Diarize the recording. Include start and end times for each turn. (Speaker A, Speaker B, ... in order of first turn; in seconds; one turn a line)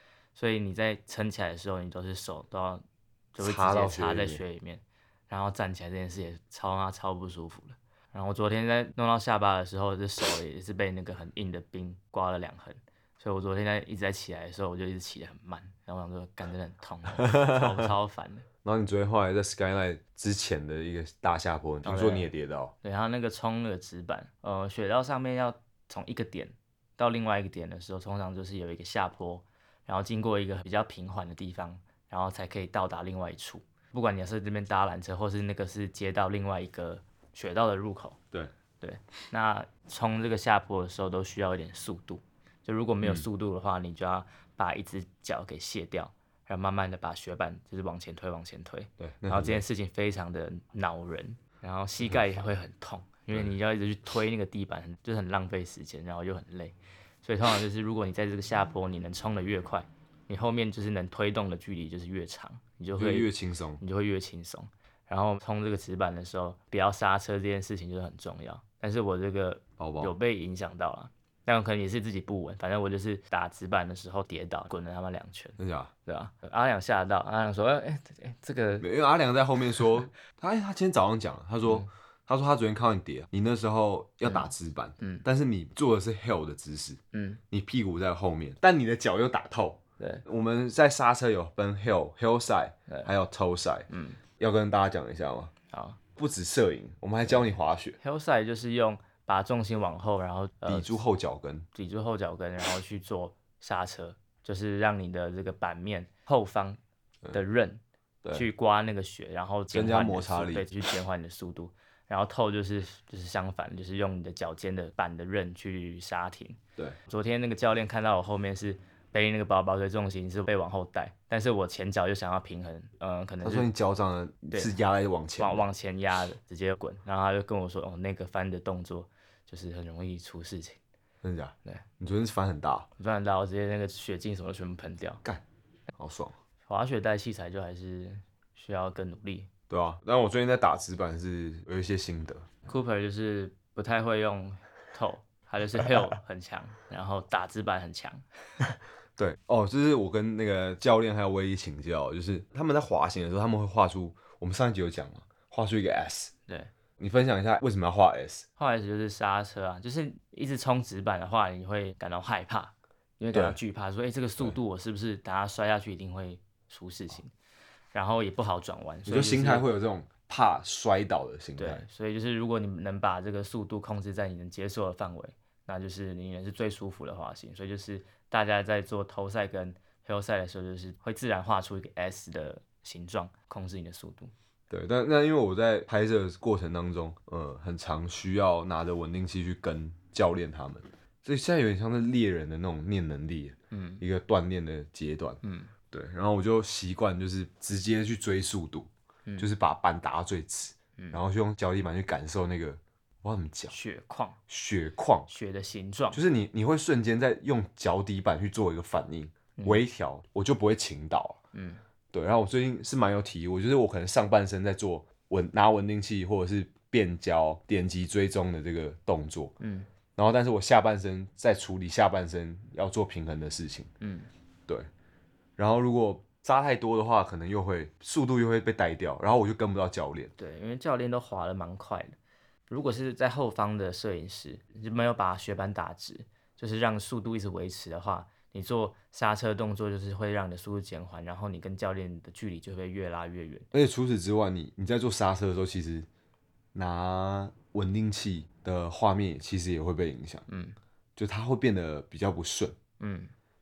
Speaker A: 0.3-18.5
Speaker B: 3.4-4.4
Speaker B: 17.1-17.9
Speaker B: 18.6-22.7
Speaker A: 21.8-22.3
Speaker A: 22.8-38.2
Speaker A: 38.8-63.3
Speaker B: 49.0-49.6
Speaker B: 62.9-63.8
Speaker A: 63.8-78.9
Speaker B: 69.8-70.1
Speaker B: 75.6-75.9
Speaker B: 78.8-87.0
Speaker A: 84.2-85.2
Speaker A: 87.1-87.4
Speaker B: 87.5-95.5
Speaker A: 90.0-90.2
Speaker A: 93.9-94.2
Speaker A: 95.7-96.0
Speaker B: 96.2-98.0
Speaker A: 97.2-101.0
Speaker B: 100.6-101.7
Speaker A: 101.7-106.8
Speaker A: 107.3-123.7
Speaker B: 109.7-110.7
Speaker B: 123.4-125.7
Speaker A: 125.4-130.8
Speaker B: 131.2-132.9
Speaker A: 133.0-135.2
Speaker B: 135.9-136.3
Speaker A: 136.7-139.5
Speaker B: 139.7-142.5
Speaker A: 142.6-148.2
Speaker B: 149.2-156.3
Speaker B: 157.0-158.4
Speaker A: 158.6-167.3
Speaker B: 163.3-163.6
Speaker A: 167.9-169.7
Speaker B: 169.1-171.8
Speaker A: 171.6-184.3
Speaker B: 184.7-203.7
Speaker A: 193.7-194.0
Speaker A: 195.4-195.7
Speaker A: 203.7-204.4
Speaker B: 204.5-205.3
Speaker A: 205.3-206.2
Speaker B: 206.1-211.4
Speaker A: 209.6-209.8
Speaker A: 211.5-211.8
Speaker B: 212.1-219.6
Speaker A: 219.6-219.9
Speaker B: 220.2-223.9
Speaker A: 224.0-224.3
Speaker B: 225.6-230.3
Speaker A: 230.4-232.1
Speaker A: 232.7-243.7
Speaker B: 243.7-246.1
Speaker B: 246.7-250.4
Speaker A: 250.5-250.8
Speaker B: 251.2-252.8
Speaker A: 253.0-253.3